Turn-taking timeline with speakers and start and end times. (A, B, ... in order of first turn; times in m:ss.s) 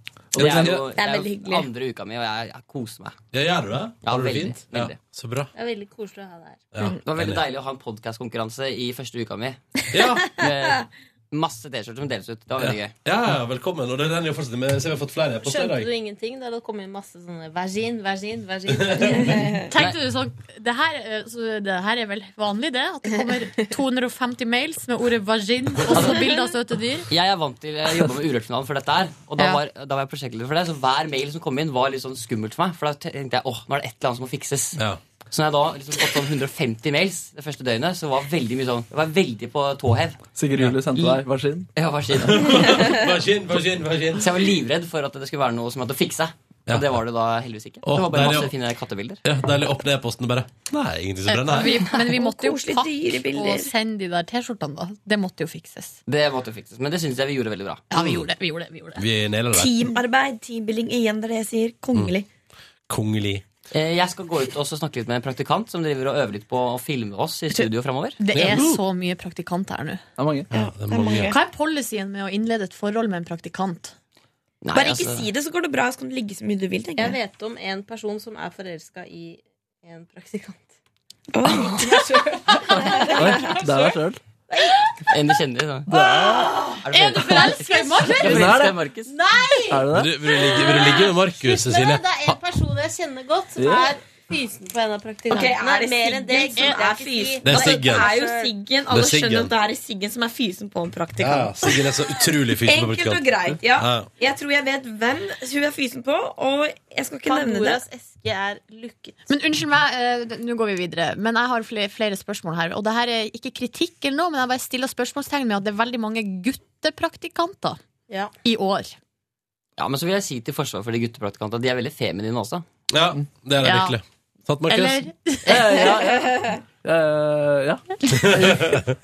0:00.3-0:00.9 A
0:00.4-0:03.2 B
0:00.4-0:00.8 C
0:00.9-0:01.7 D
0:03.3-0:05.5 C
0:04.0-0:05.0 B
0:05.5-0:06.7 E
0:06.7-0:07.4 C
0:07.0-0:09.6 B
0:09.9-0:10.3 C
0:10.0-0:10.8 D
0:10.3-0:12.9 B
0:12.6-0:15.9 C
0:15.4-0:19.4 E
0:19.0-0:19.2 C
0:19.0-0:19.7 D
0:19.7-0:27.1 F
0:27.1-0:40.2 B
0:40.3-0:41.7 A
0:41.7-0:42.6 B
0:42.1-0:44.3 C
0:42.5-0:43.1 D
0:44.2-0:49.2 B
0:46.7-0:47.0 C
0:47.8-0:48.6 C
0:49.2-0:51.8 C
0:51.3-0:56.0 F
0:51.6-0:53.7 D
0:56.1-0:57.8 B
0:57.9-0:59.0 F
0:57.9-0:58.3 C
0:59.0-0:59.8 C
0:59.5-1:02.3 D
1:02.9-1:03.4 C
1:03.7-1:08.2 B
1:08.2-1:10.0 F
1:08.3-1:08.8 C
1:10.2-1:10.5 A
1:10.5-1:11.3 C
1:10.5-1:11.4 D
1:11.3-1:13.9 F
1:14.6-1:15.3 B
1:14.7-1:17.2 D
1:17.0-1:20.7 E
1:21.3-1:23.9 D
1:22.7-1:23.0 F
1:23.2-1:24.2 A
1:25.1-1:25.9 B
1:25.9-1:26.5 A
1:25.9-1:28.6 F
1:26.0-1:26.8 D
1:26.8-1:29.1 B
1:28.2-1:28.9 A
1:29.1-1:38.6 E
1:29.7-1:30.1 A
1:29.9-1:32.4 C
1:33.6-1:33.9 A
1:35.3-1:47.8 D
1:36.6-1:36.9 F
1:37.4-1:38.1 C
1:38.9-1:39.5 C
1:41.2-1:44.1 C
1:47.2-1:49.2 E
1:49.3-1:57.8 F
1:58.4-1:59.0 F
1:59.8-2:02.6 B
2:02.9-2:05.0 C
2:03.6-2:04.0 F
2:04.7-2:05.9 F
2:05.4-2:08.8 A
2:08.4-2:08.9 C